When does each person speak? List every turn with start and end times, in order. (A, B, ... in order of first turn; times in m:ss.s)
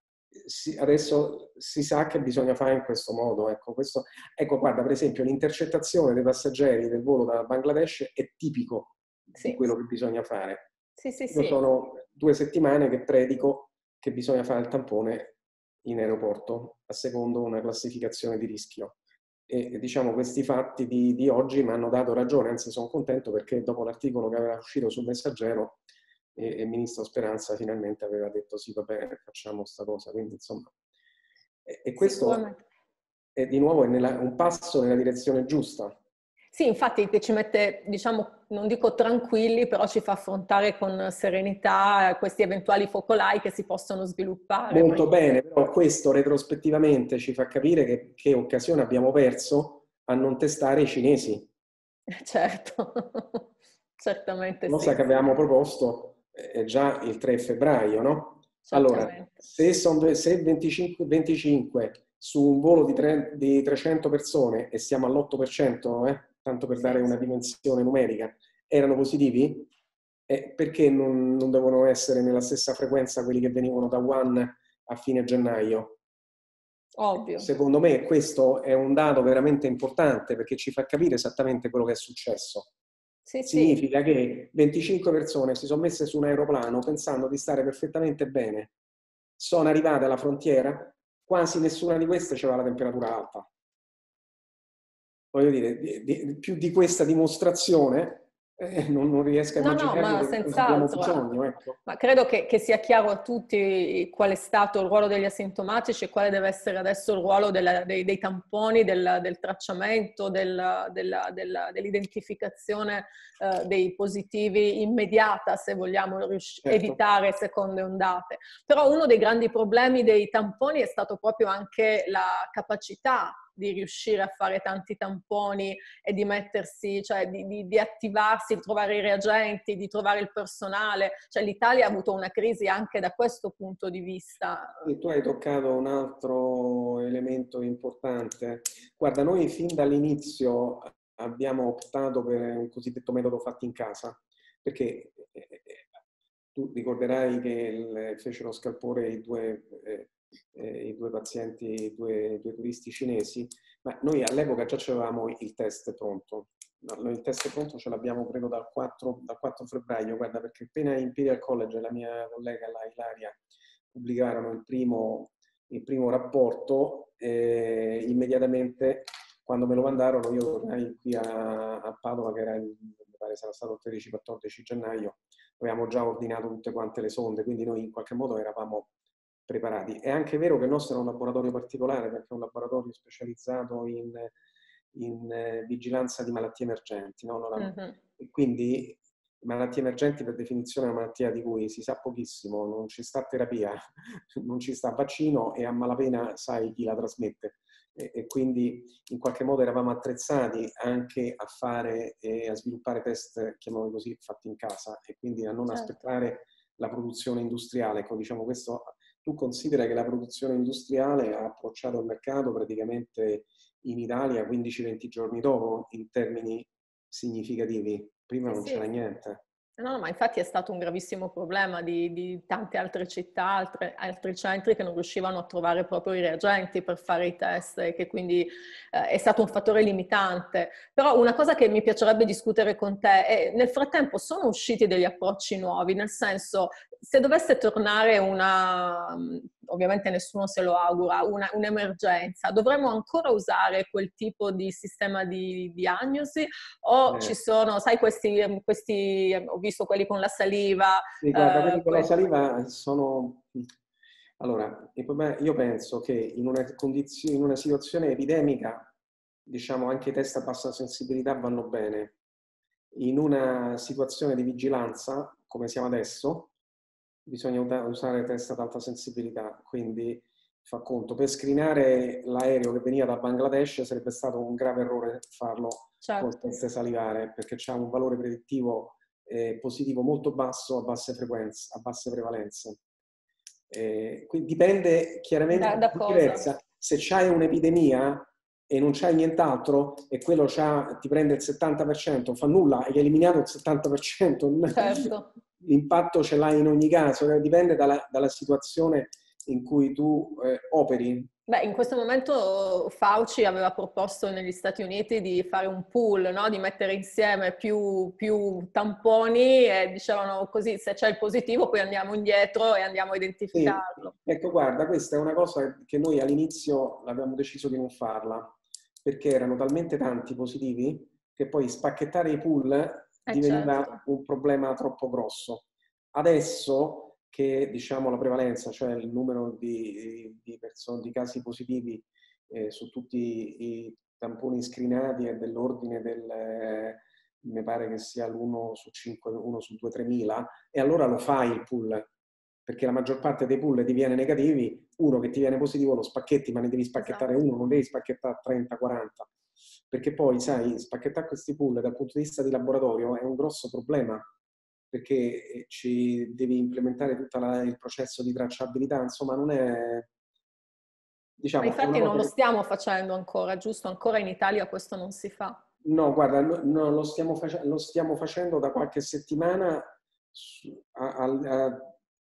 0:00.3-0:10.7 A
0:09.3-0:09.7 B
0:11.0-0:11.6 B
0:11.3-0:25.8 A
0:26.3-0:30.7 A
0:31.6-0:32.4 A
0:32.0-0:32.6 B
0:33.4-0:36.0 A
0:36.5-0:45.1 B
0:44.7-0:51.5 A
0:52.1-0:55.3 B
0:54.7-1:09.7 A
0:58.7-0:59.5 B
1:06.8-1:07.1 B
1:10.3-1:16.0 A
1:17.0-1:17.5 B
1:17.4-1:22.7 A
1:23.3-1:23.8 B
1:23.4-1:28.7 A
1:29.4-1:33.5 A
1:35.3-1:41.8 A
1:39.6-1:41.2 B
1:41.8-2:14.8 B
1:56.6-1:57.0 A
2:14.8-2:25.9 A
2:26.5-2:43.4 A
2:43.9-2:58.9 A
2:59.5-3:04.3 A
3:04.9-3:39.4 A
3:07.6-3:08.0 B
3:25.7-3:26.0 B
3:38.5-3:38.9 B
3:39.8-4:12.1 B
4:07.1-4:07.3 A
4:11.2-4:13.7 A
4:14.4-4:18.9 A
4:19.4-4:22.2 A
4:22.9-4:26.5 A
4:27.2-4:42.8 A
4:36.0-4:36.6 B
4:43.7-5:01.3 A
4:45.5-4:46.5 B
4:54.7-4:55.3 B
5:01.5-5:14.1 B
5:13.5-5:42.1 A
5:23.3-5:24.0 B
5:42.6-5:49.3 A
5:47.0-5:47.4 B
5:49.9-5:54.2 A
5:54.9-6:00.1 A
6:01.4-6:02.3 A
6:01.6-6:05.6 B
6:05.8-6:11.9 A